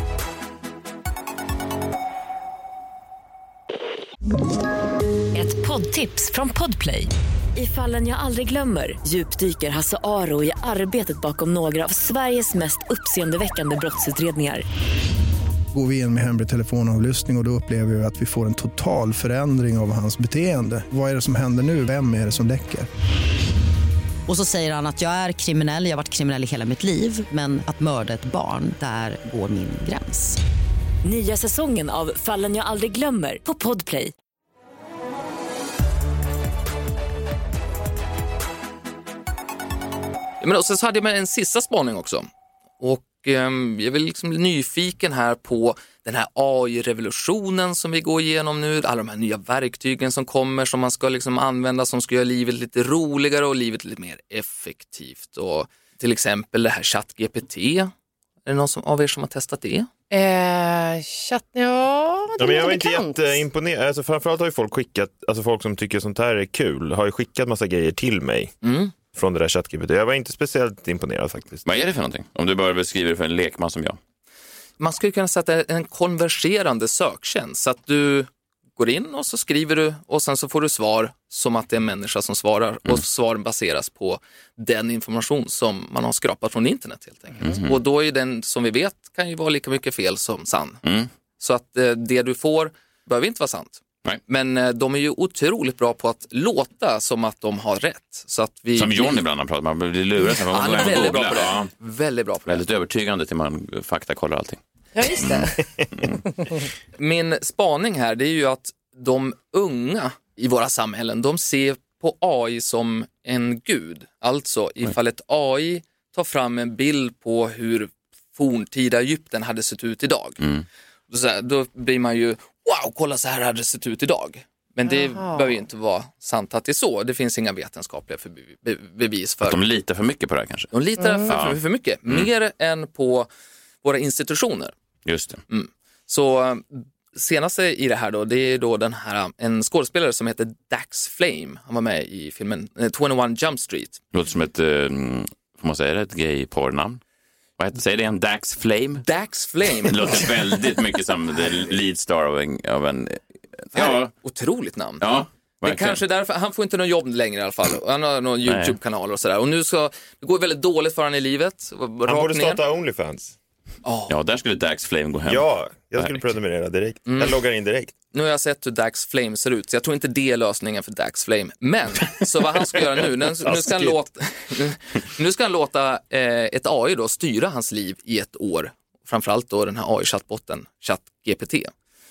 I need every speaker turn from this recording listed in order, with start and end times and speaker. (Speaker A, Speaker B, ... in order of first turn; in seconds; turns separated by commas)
Speaker A: 5.3-14.7, Speaker B: 15.7-22.9, Speaker C: 24.3-30.4, Speaker A: 31.0-34.1, Speaker D: 40.4-42.3, Speaker D: 42.8-57.9, Speaker D: 58.5-59.9, Speaker E: 60.1-63.4, Speaker F: 62.4-68.5, Speaker D: 68.6-68.9, Speaker F: 69.1-71.7, Speaker G: 71.7-74.0, Speaker D: 74.8-90.8, Speaker G: 87.4-87.8, Speaker G: 90.8-91.1, Speaker D: 91.4-99.2, Speaker G: 98.8-101.7, Speaker D: 100.4-102.6, Speaker G: 102.5-104.6, Speaker E: 105.0-105.6, Speaker G: 105.2-106.2, Speaker D: 107.0-120.4, Speaker G: 120.4-120.7, Speaker D: 121.1-129.6, Speaker E: 124.9-125.5, Speaker G: 129.4-130.7, Speaker D: 130.7-133.3, Speaker E: 131.0-131.3, Speaker G: 131.3-132.3, Speaker D: 133.8-134.7, Speaker G: 135.1-135.4, Speaker D: 135.5-144.0, Speaker G: 144.1-147.0, Speaker G: 147.6-149.0, Speaker D: 149.0-150.5, Speaker G: 149.8-154.1, Speaker D: 153.8-155.1, Speaker G: 155.0-156.0, Speaker D: 155.6-162.6, Speaker G: 158.4-158.8, Speaker F: 162.1-163.4, Speaker D: 163.8-164.1, Speaker G: 164.1-165.5, Speaker F: 165.2-167.9, Speaker G: 166.0-166.2, Speaker D: 167.1-167.4, Speaker D: 168.1-181.7, Speaker F: 173.5-173.9